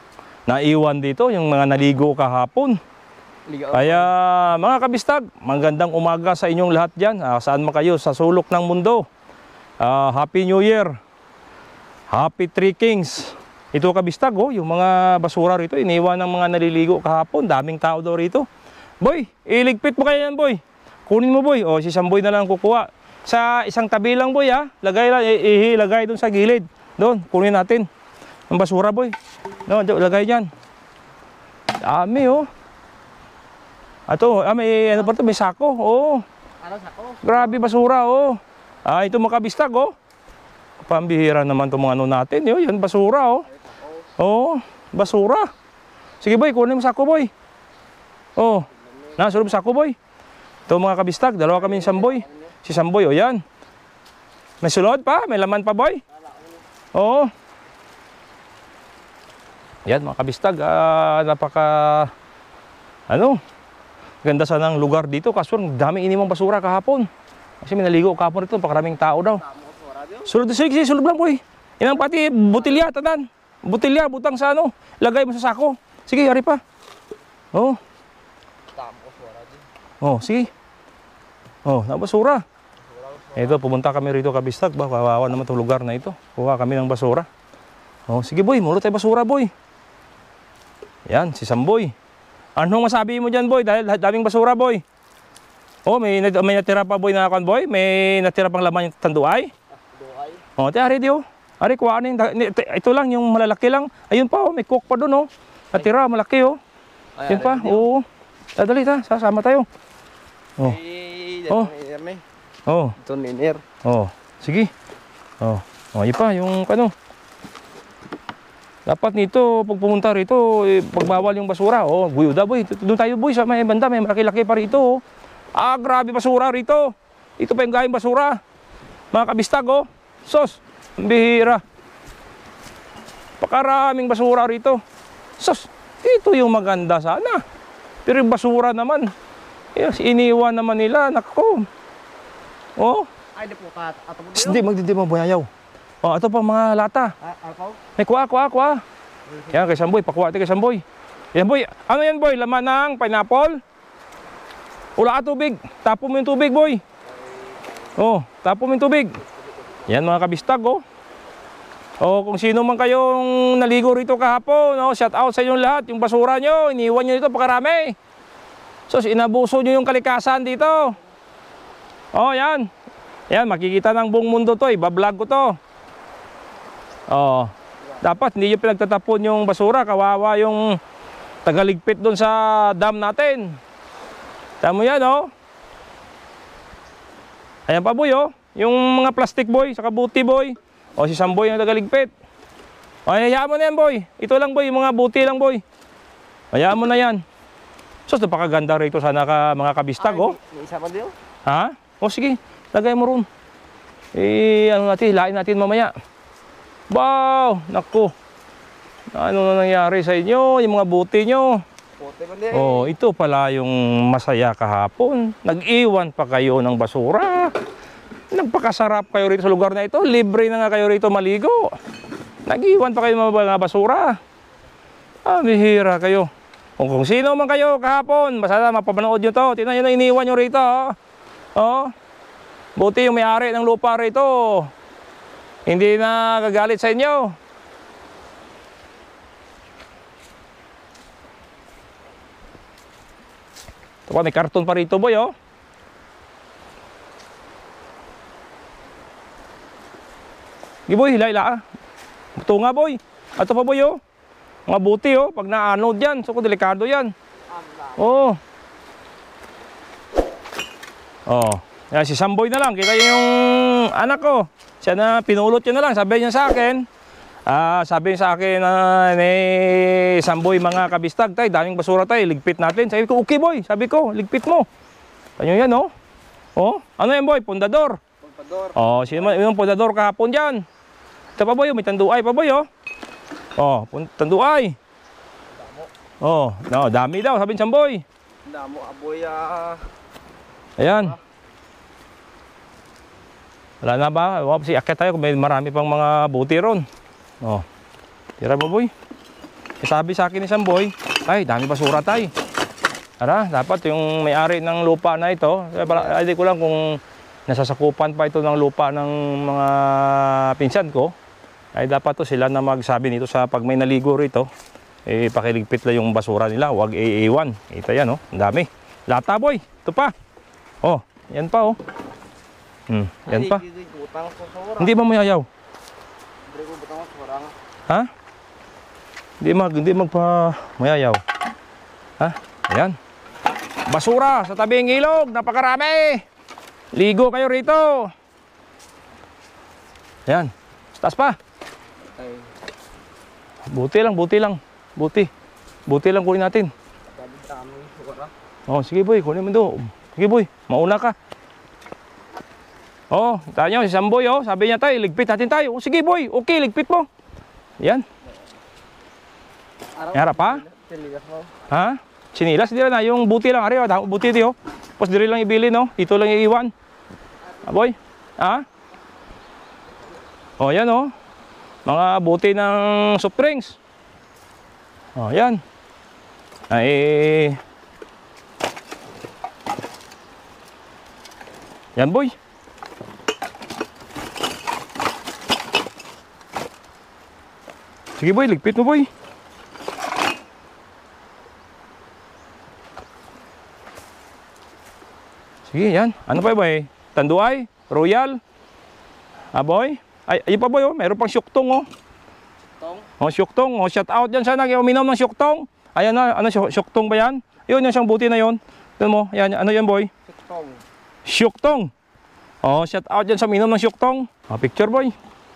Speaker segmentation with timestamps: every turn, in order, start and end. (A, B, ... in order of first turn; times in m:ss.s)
0:00.5-0:02.8 A
0:03.5-0:04.1 B
0:03.7-0:09.1 A
0:09.8-0:11.0 A
0:12.1-0:18.5 A
0:19.0-0:27.9 A
0:28.5-0:30.5 A
0:31.7-0:32.5 A
0:34.1-0:36.2 A
0:36.6-0:37.5 B
0:37.2-0:39.9 A
0:40.8-0:43.5 A
0:43.5-0:44.1 B
0:44.2-0:45.5 A
0:46.2-0:47.3 A
0:48.4-0:50.0 A
0:48.8-0:49.3 B
0:50.7-0:53.4 A
0:51.6-0:52.6 B
0:54.6-0:56.0 A
0:56.1-0:56.6 B
0:56.9-0:57.3 A
0:59.9-1:02.1 A
1:03.1-1:03.4 A
1:04.2-1:07.1 A
1:07.6-1:09.4 A
1:09.4-1:10.3 B
1:10.2-1:16.6 A
1:17.5-1:17.8 A
1:18.7-1:19.6 B
1:20.0-1:20.5 A
1:21.6-1:22.4 A
1:22.9-1:23.6 B
1:23.3-1:27.3 A
1:28.1-1:29.5 A
1:31.1-1:31.9 A
1:32.6-1:34.8 A
1:35.9-1:39.5 A
1:39.8-1:40.4 B
1:40.6-1:46.6 A
1:47.2-1:47.9 B
1:47.3-1:49.7 A
1:50.6-1:52.2 B
1:52.7-1:53.0 A
1:53.0-1:53.6 B
1:53.8-1:54.7 A
1:55.4-1:56.9 A
1:58.9-2:05.0 A
2:05.6-2:08.4 A
2:09.1-2:11.6 A
2:13.4-2:14.8 A
2:15.4-2:17.4 A
2:18.0-2:19.1 A
2:19.8-2:21.7 A
2:22.8-2:23.1 A
2:23.4-2:24.7 B
2:24.3-2:25.5 A
2:26.0-2:27.2 A
2:27.2-2:27.8 B
2:28.0-2:28.8 A
2:29.3-2:29.7 B
2:29.5-2:33.6 A
2:35.0-2:36.8 A
2:37.0-2:38.0 B
2:38.0-2:39.2 A
2:39.4-2:39.9 B
2:39.9-2:40.8 A
2:42.0-2:48.0 A
2:48.9-2:51.0 A
2:52.1-2:52.7 A
2:53.3-2:55.6 A
2:57.1-3:00.8 A
3:01.4-3:03.6 A
3:04.6-3:05.3 A
3:07.7-3:12.1 A
3:13.1-3:15.6 A
3:16.5-3:17.2 A
3:18.1-3:20.4 A
3:20.0-3:21.1 B
3:21.5-3:23.3 A
3:24.1-3:25.9 A
3:26.9-3:28.1 A
3:29.1-3:31.6 A
3:32.0-3:32.9 B
3:32.5-3:37.6 A
3:38.3-3:41.8 A
3:42.5-3:44.2 A
3:45.2-3:51.0 A
3:51.6-3:51.9 A
3:52.8-3:54.7 A
3:55.7-3:57.4 A
4:04.1-4:05.3 A
4:10.9-4:11.6 A
4:12.4-4:14.0 A
4:14.7-4:17.1 A
4:17.5-4:18.1 B
4:18.0-4:18.4 A
4:21.3-4:26.9 A
4:27.4-4:34.7 A
4:35.4-4:35.9 A
4:36.6-4:38.0 A
4:38.2-4:39.4 B
4:38.8-4:40.6 A
4:41.4-4:42.7 A
4:43.6-4:44.8 A
4:45.6-4:45.9 B
4:46.2-4:48.0 A
4:48.4-4:49.9 B
4:50.8-4:51.2 A
4:50.9-4:51.2 B
4:53.8-4:56.8 A
4:58.4-4:58.9 A
4:59.8-5:02.3 A
5:03.2-5:11.1 A
5:11.7-5:14.5 A
5:15.1-5:20.1 A
5:20.8-5:21.8 A
5:22.9-5:23.6 A
5:23.3-5:24.9 B
5:24.8-5:25.5 A
5:26.5-5:27.5 B
5:29.4-5:31.2 A
5:32.2-5:33.0 A
5:33.9-5:36.2 A
5:36.9-5:38.1 A
5:40.3-5:41.4 A
5:42.1-5:42.5 B
5:43.7-5:45.3 A
5:45.9-5:46.7 A
5:47.1-5:48.3 B
5:48.7-5:51.2 A
5:53.1-5:57.1 A
5:57.8-5:58.1 A
6:00.0-6:01.6 B
6:00.1-6:00.6 A
6:01.7-6:06.7 A
6:07.6-6:08.7 A
6:10.6-6:11.1 A
6:11.8-6:13.8 A
6:15.2-6:15.6 A
6:16.7-6:17.6 A
6:22.0-6:22.3 A
6:28.2-6:29.1 A
6:35.7-6:38.4 A
6:39.5-6:41.9 A
6:42.8-6:43.1 B
6:43.2-6:50.1 A
6:50.3-6:50.8 B
6:51.2-6:51.9 A
6:52.6-6:55.2 A